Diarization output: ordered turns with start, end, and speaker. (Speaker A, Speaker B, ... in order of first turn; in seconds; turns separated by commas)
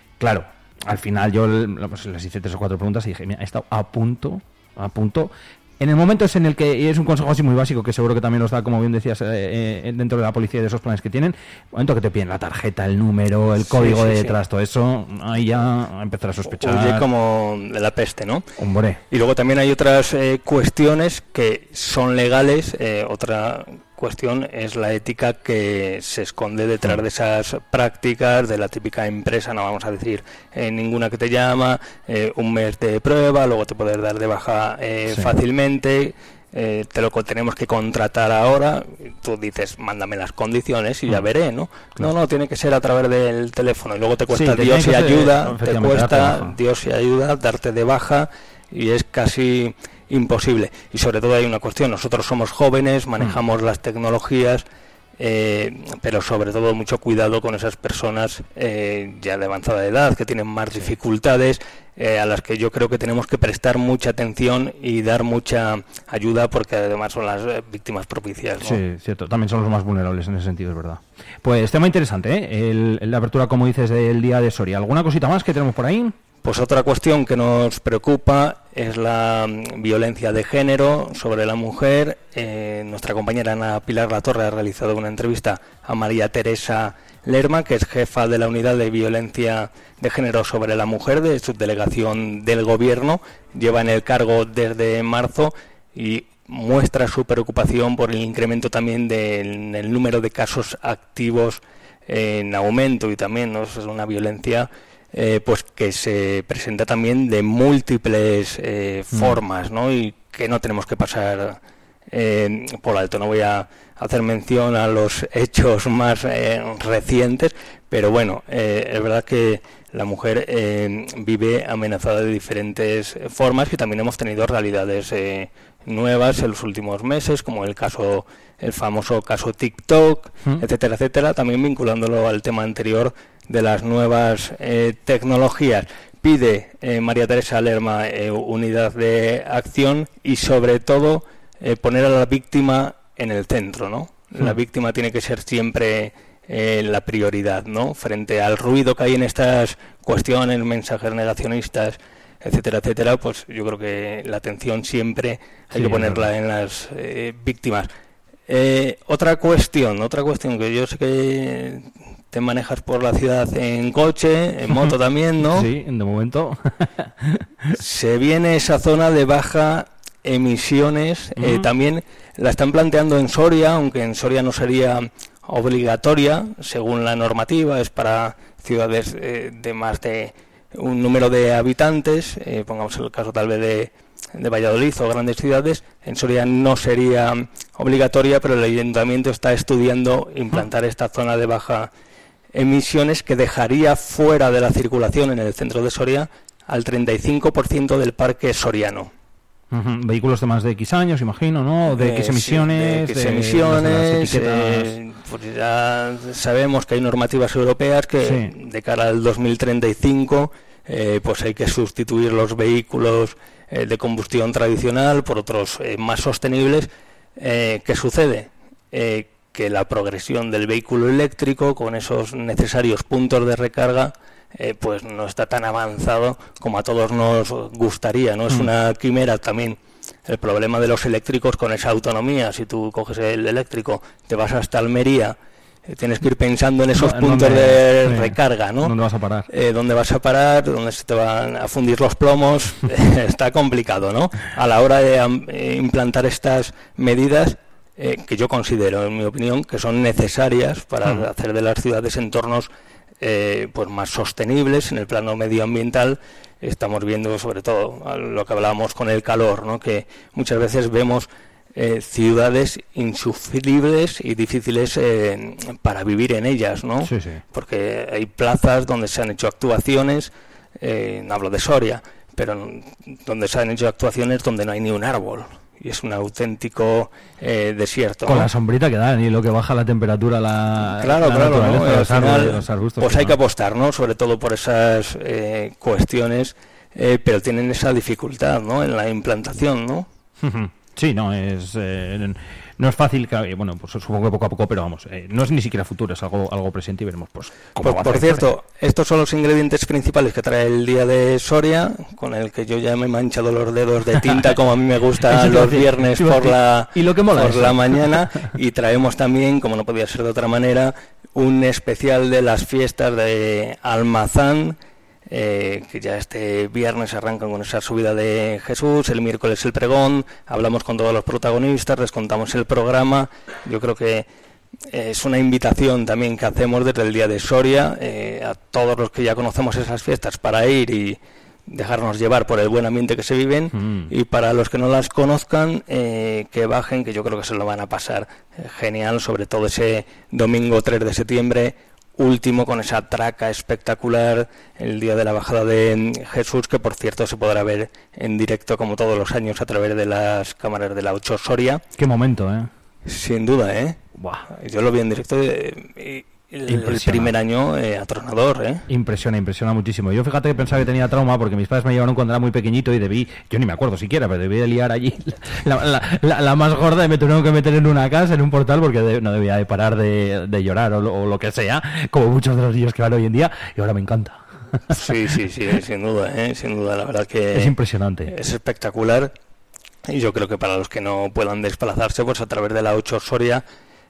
Speaker A: 0.2-17.1, Speaker B: 13.7-14.4, Speaker B: 16.5-18.4, Speaker A: 18.6-19.0, Speaker B: 19.1-54.6, Speaker A: 44.3-46.5, Speaker B: 55.2-68.8, Speaker A: 68.6-76.1, Speaker B: 76.4-111.6, Speaker A: 109.1-109.4, Speaker B: 112.1-157.9, Speaker A: 155.7-156.2, Speaker B: 158.5-165.7, Speaker A: 165.4-167.7, Speaker B: 167.8-191.9, Speaker A: 171.4-171.7, Speaker B: 192.5-199.1, Speaker A: 199.7-204.9, Speaker B: 201.9-235.3, Speaker A: 208.2-208.5, Speaker B: 235.9-238.9, Speaker A: 236.9-239.5, Speaker B: 239.5-252.7, Speaker B: 253.2-278.5, Speaker A: 267.0-267.4, Speaker A: 278.3-283.4, Speaker B: 281.0-290.1, Speaker A: 290.4-298.4, Speaker B: 297.8-314.8, Speaker A: 305.3-308.1, Speaker B: 315.3-324.3, Speaker B: 324.9-351.8, Speaker A: 333.7-334.1, Speaker A: 352.0-352.7, Speaker B: 353.1-354.0, Speaker A: 354.2-354.4, Speaker B: 354.5-358.8, Speaker A: 356.7-357.3, Speaker A: 358.9-374.9, Speaker B: 374.9-377.7, Speaker A: 377.5-378.3, Speaker B: 378.3-379.3, Speaker B: 380.1-383.6